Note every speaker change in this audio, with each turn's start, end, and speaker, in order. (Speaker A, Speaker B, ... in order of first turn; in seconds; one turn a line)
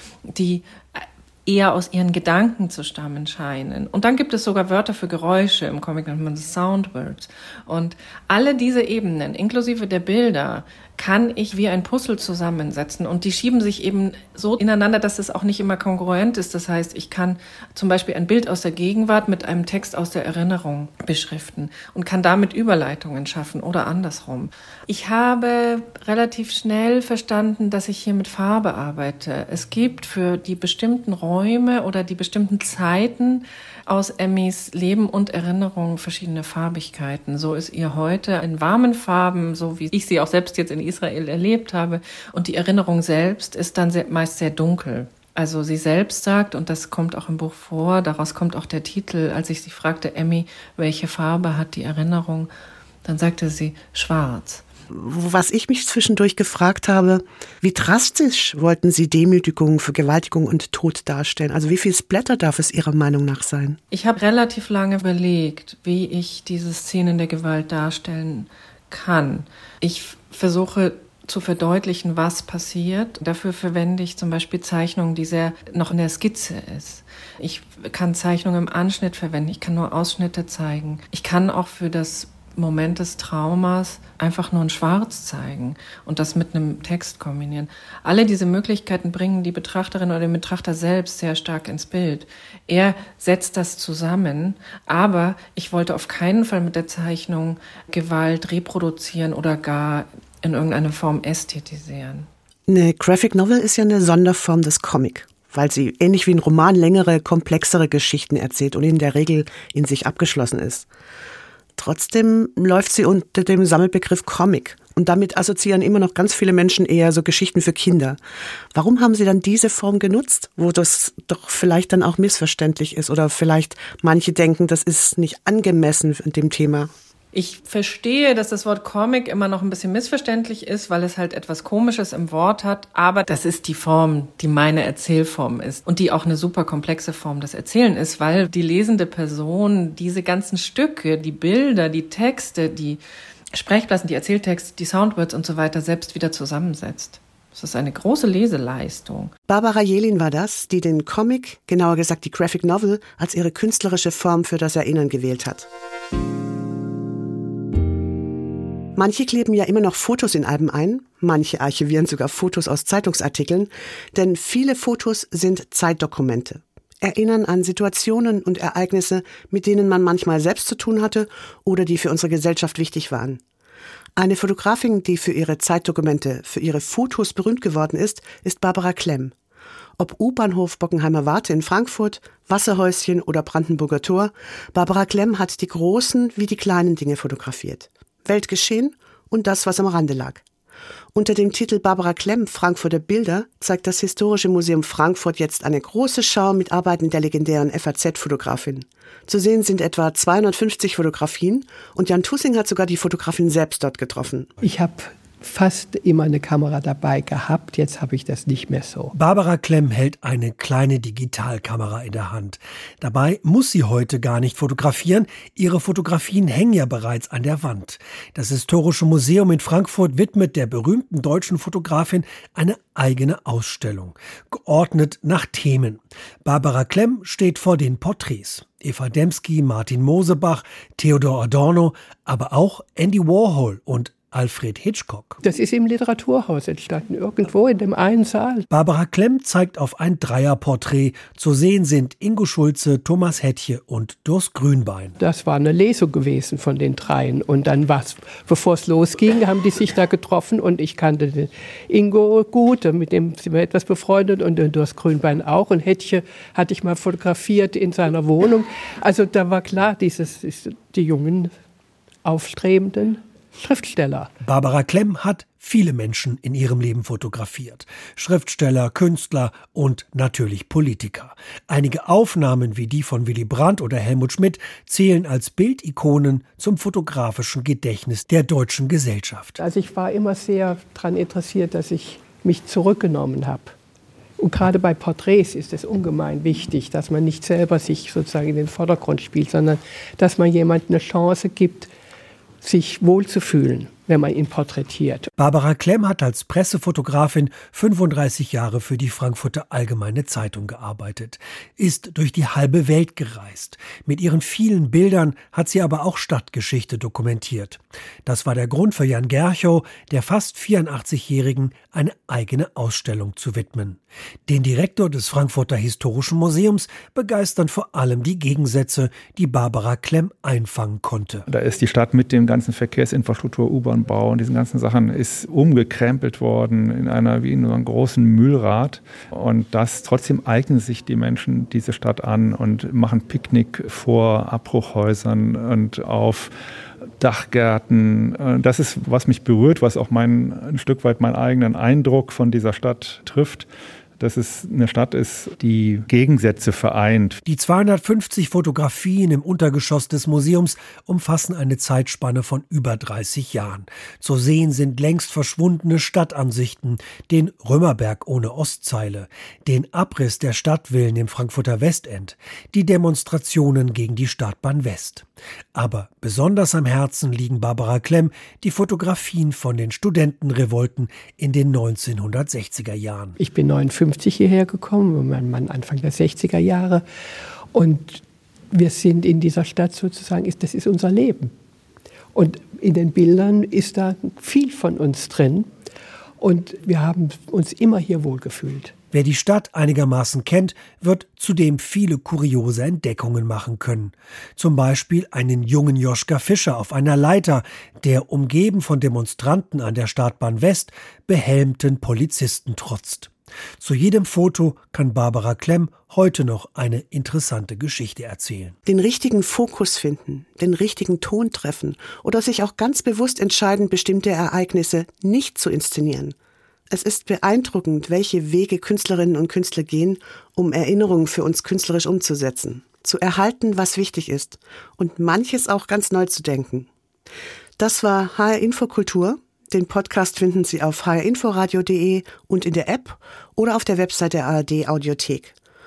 Speaker A: 0.3-52.5
Speaker A: 53.0-54.6
Speaker B: 54.9-63.8
Speaker A: 63.9-102.3
Speaker B: 102.7-110.9
Speaker B: 111.8-118.2
Speaker B: 118.7-126.9
Speaker A: 127.3-143.0
Speaker A: 143.5-149.3
Speaker B: 149.5-155.7
Speaker B: 158.9-173.4
Speaker B: 174.2-179.3
Speaker B: 180.0-190.4
Speaker B: 191.1-204.5
Speaker C: 204.6-209.1
Speaker D: 209.1-235.4
Speaker C: 235.4-238.7
Speaker D: 238.7-245.2
Speaker C: 245.2-261.5
Speaker C: 262.2-264.3
Speaker D: 264.4-279.6
Speaker C: 279.6-283.8
Speaker C: 284.4-291.9
Speaker C: 292.6-295.3
Speaker D: 295.4-321.5
Speaker E: 321.5-336.5
Speaker E: 337.2-343.7
Speaker E: 344.2-347.4
Speaker D: 347.4-373.4
Speaker C: 373.4-377.0
Speaker C: 377.7-381.5
Speaker C: 382.3-385.7
Speaker C: 386.4-388.9
Speaker D: 389.1-408.8
Speaker B: 408.9-416.3
Speaker B: 416.9-426.9
Speaker B: 427.8-435.5